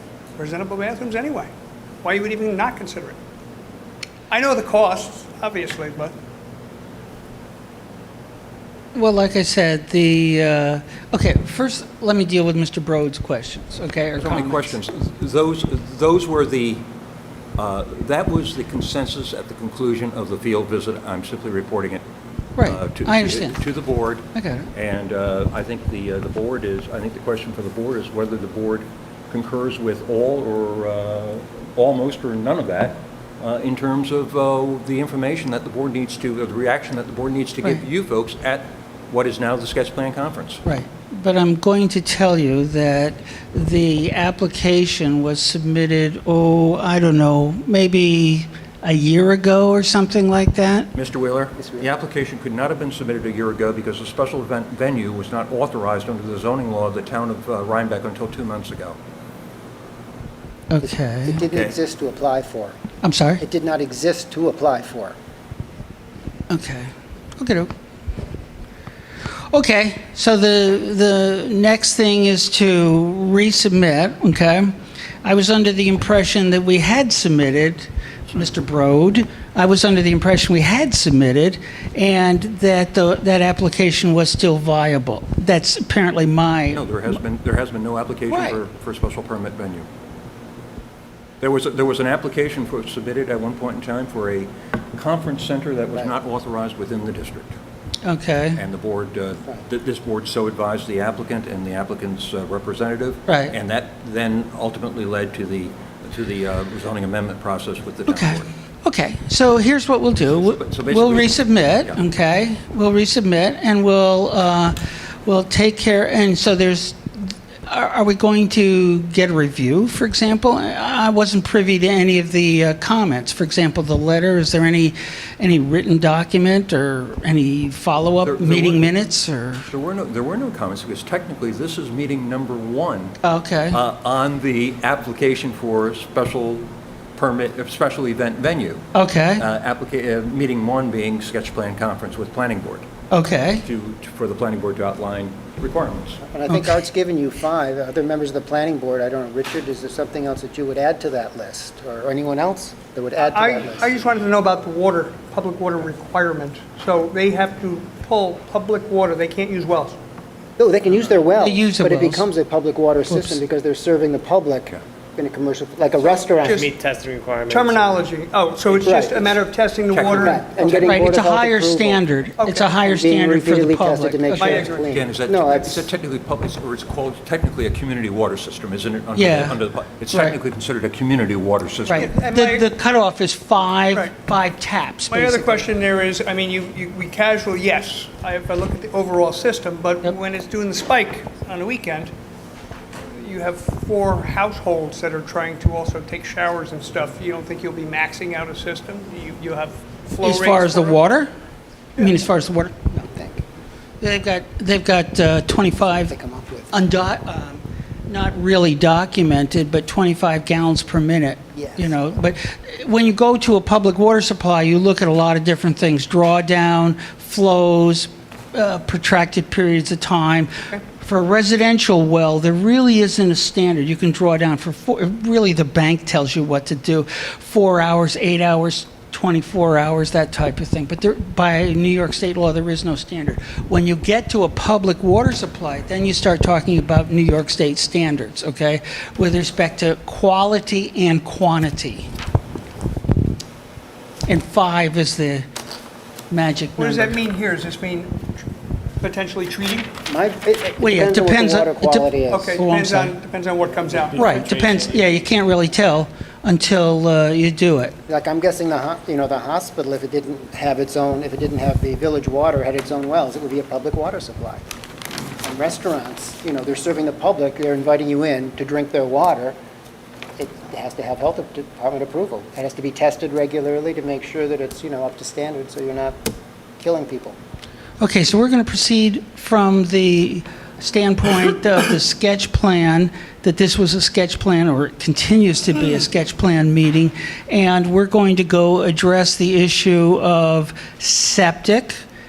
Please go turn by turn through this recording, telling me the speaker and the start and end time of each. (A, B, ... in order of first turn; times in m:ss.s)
0:00.4-0:01.5 A
0:02.0-0:03.2 A
0:04.3-0:06.1 A
0:08.9-0:14.8 B
0:14.2-0:16.9 C
0:17.6-0:22.0 C
0:22.6-0:23.7 B
0:22.6-0:40.6 C
0:24.3-0:24.7 B
0:40.6-0:50.9 B
0:50.9-0:59.0 C
0:51.6-0:51.9 D
1:00.7-1:01.4 B
1:00.8-1:02.8 D
1:03.0-1:03.4 B
1:03.4-1:05.2 D
1:06.5-1:07.7 B
1:09.5-1:14.7 B
1:15.2-1:26.8 B
1:26.7-1:29.9 C
1:28.3-1:28.6 B
1:31.4-1:37.6 C
1:38.0-1:38.6 B
1:38.6-1:48.5 C
1:43.3-1:43.5 B
1:48.1-2:09.7 B
1:50.2-1:52.0 C
2:08.2-2:08.9 C
2:09.7-2:13.2 C
2:13.2-2:13.8 B
2:13.7-2:18.8 C
2:18.9-2:19.4 B
2:19.4-2:22.9 C
2:23.1-2:23.6 B
2:23.6-2:26.2 C
2:26.2-2:33.9 D
2:26.5-2:26.8 B
2:33.3-2:40.0 A
2:40.6-2:46.6 D
2:41.3-2:42.2 B
2:43.1-2:43.4 B
2:46.4-2:46.7 A
2:46.4-2:48.0 E
2:47.5-2:51.0 A
2:48.8-2:49.3 D
2:49.9-2:50.7 C
2:50.2-2:52.0 D
2:50.8-2:54.6 B
2:52.4-2:52.7 A
2:52.8-2:55.9 D
2:54.3-2:54.8 A
2:54.8-3:02.1 C
2:59.1-2:59.6 B
3:00.1-3:00.4 B
3:01.8-3:05.6 B
3:02.0-3:02.7 A
3:05.1-3:12.1 A
3:13.1-3:21.0 A
3:20.2-3:21.3 B
3:22.0-3:23.0 B
3:23.0-3:23.4 D
3:24.0-3:26.1 B
3:25.8-3:26.7 D
3:26.7-4:02.1 B
3:31.5-3:31.9 D
4:04.2-4:05.4 B
4:06.3-4:07.1 B
4:06.8-4:08.3 A
4:09.0-4:09.9 A
4:10.0-4:12.6 D
4:10.8-4:13.2 B
4:12.3-4:14.5 A
4:13.9-4:15.0 E
4:14.2-4:18.0 B
4:18.1-4:24.6 D
4:25.4-4:29.6 D
4:30.4-4:36.2 D
4:36.8-4:37.4 D
4:38.0-4:52.0 B